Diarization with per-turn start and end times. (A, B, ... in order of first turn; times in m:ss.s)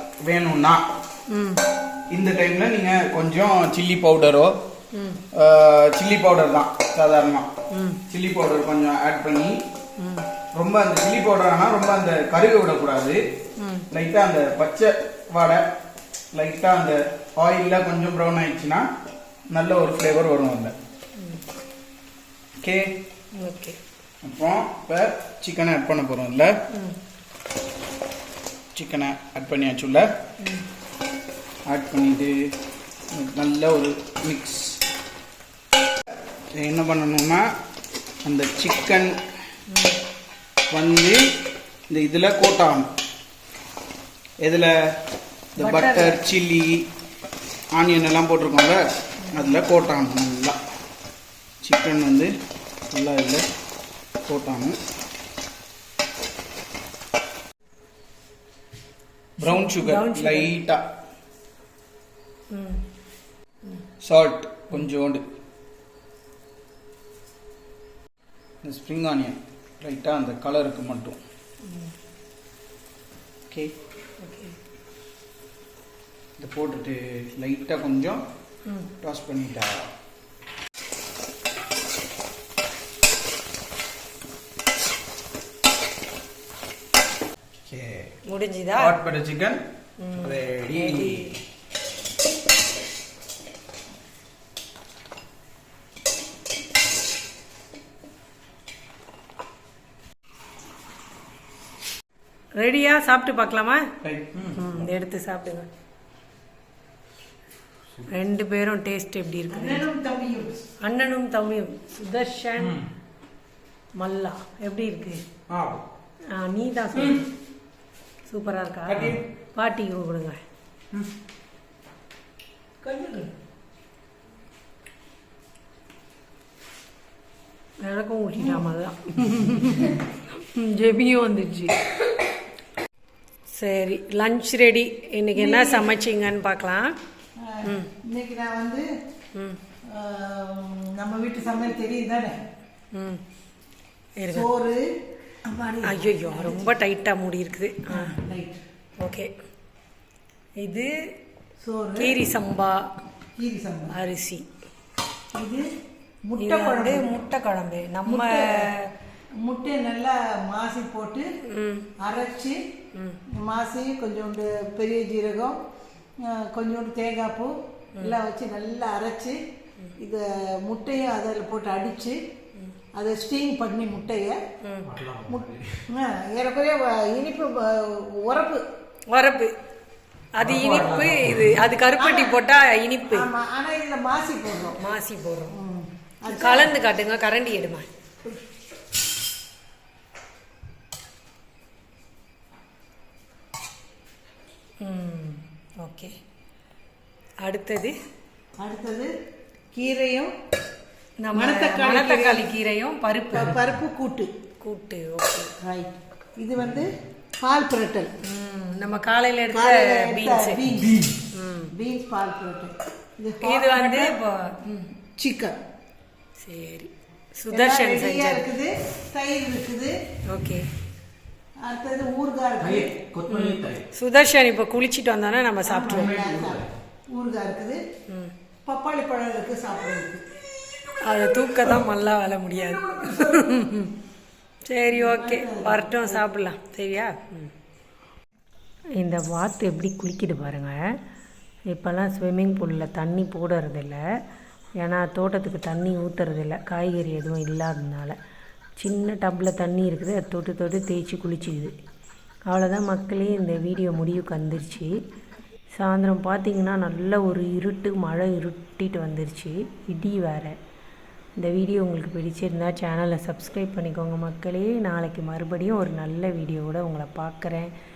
0:00.3-0:00.8 A
0:01.3-0:01.6 B
0:02.1-0:04.6 A
0:04.9-0:05.2 B
0:05.3-0:07.5 A
0:07.7-0:08.0 B
0:08.1-0:09.6 A
0:10.0-0:10.3 B
0:10.6-0:13.2 A
0:13.6-0:13.9 B
0:13.9-0:15.6 A
0:16.3-0:18.8 A
0:19.5-0:20.8 A
0:22.6-0:23.0 A
0:23.4-0:23.8 B
0:24.2-0:26.5 A
0:28.8-0:30.1 A
0:31.7-0:32.3 A
0:33.1-0:34.8 A
0:36.6-0:37.4 A
0:38.2-0:39.2 A
0:39.7-0:40.0 B
0:40.7-0:41.2 A
0:41.9-0:42.9 A
0:44.4-0:44.7 A
0:45.6-0:46.8 A
0:45.6-0:46.2 B
0:47.8-0:48.8 A
0:49.2-0:49.6 B
0:49.3-0:50.6 A
0:51.6-0:52.3 A
0:52.9-0:53.4 A
0:54.3-0:54.8 A
0:59.4-1:00.8 A
0:59.4-1:00.5 B
1:02.5-1:02.8 B
1:04.0-1:05.2 A
1:08.6-1:11.2 A
1:11.6-1:11.9 B
1:14.2-1:14.6 B
1:16.4-1:18.2 A
1:19.0-1:19.9 A
1:27.7-1:28.2 A
1:28.3-1:29.0 B
1:28.8-1:29.6 A
1:30.0-1:31.4 B
1:30.2-1:31.3 A
1:42.6-1:43.9 B
1:44.0-1:44.8 A
1:44.6-1:45.7 B
1:48.1-1:49.9 B
1:49.5-1:50.6 C
1:50.8-1:52.8 B
1:54.0-1:55.2 B
1:55.5-1:55.8 A
1:56.3-1:57.3 B
1:57.0-1:57.2 A
1:58.3-2:00.4 B
1:58.9-1:59.2 A
2:02.8-2:03.3 B
2:07.8-2:11.8 B
2:13.5-2:17.0 B
2:15.4-2:16.0 C
2:17.4-2:18.9 C
2:19.9-2:22.4 C
2:23.0-2:23.2 B
2:24.2-2:24.5 B
2:24.3-2:24.8 C
2:25.4-2:26.8 C
2:25.8-2:28.2 B
2:27.9-2:28.6 C
2:29.0-2:29.3 B
2:30.6-2:30.9 B
2:31.6-2:32.2 C
2:32.0-2:32.9 B
2:33.4-2:33.9 C
2:33.9-2:34.5 B
2:35.3-2:35.7 C
2:36.3-2:37.1 C
2:36.4-2:38.9 B
2:38.1-2:38.7 C
2:39.4-2:41.3 C
2:41.4-2:41.9 B
2:42.0-2:42.6 C
2:43.4-2:45.6 C
2:46.2-2:49.4 C
2:50.0-2:52.2 C
2:52.9-2:54.4 C
2:54.6-2:54.9 B
2:55.0-2:55.4 A
2:55.3-2:58.6 C
2:59.1-2:59.5 B
3:00.3-3:03.3 B
3:00.4-3:01.5 A
3:02.0-3:02.4 C
3:03.1-3:04.8 C
3:04.8-3:05.6 B
3:05.6-3:06.8 C
3:06.3-3:07.9 B
3:14.8-3:16.2 B
3:17.4-3:18.0 B
3:18.6-3:19.1 C
3:19.7-3:20.3 C
3:21.2-3:23.6 B
3:21.3-3:22.5 C
3:23.3-3:24.3 C
3:24.6-3:25.5 B
3:25.6-3:28.1 C
3:28.2-3:30.6 B
3:29.5-3:31.2 C
3:31.3-3:31.7 B
3:31.7-3:34.2 C
3:33.4-3:34.9 B
3:35.2-3:35.6 C
3:36.4-3:38.5 B
3:37.5-3:39.9 C
3:40.3-3:40.7 B
3:41.6-3:43.0 C
3:42.6-3:43.8 A
3:43.3-3:46.3 B
3:45.6-3:47.8 C
3:45.9-3:46.7 A
3:48.7-3:50.2 C
3:51.0-3:53.9 B
3:54.6-3:57.5 B
3:54.9-3:56.2 C
3:59.0-4:00.8 B
4:01.7-4:04.0 B
4:04.8-4:08.2 B
4:08.8-4:11.7 B
4:12.5-4:15.0 B
4:15.7-4:20.6 B
4:21.4-4:27.7 B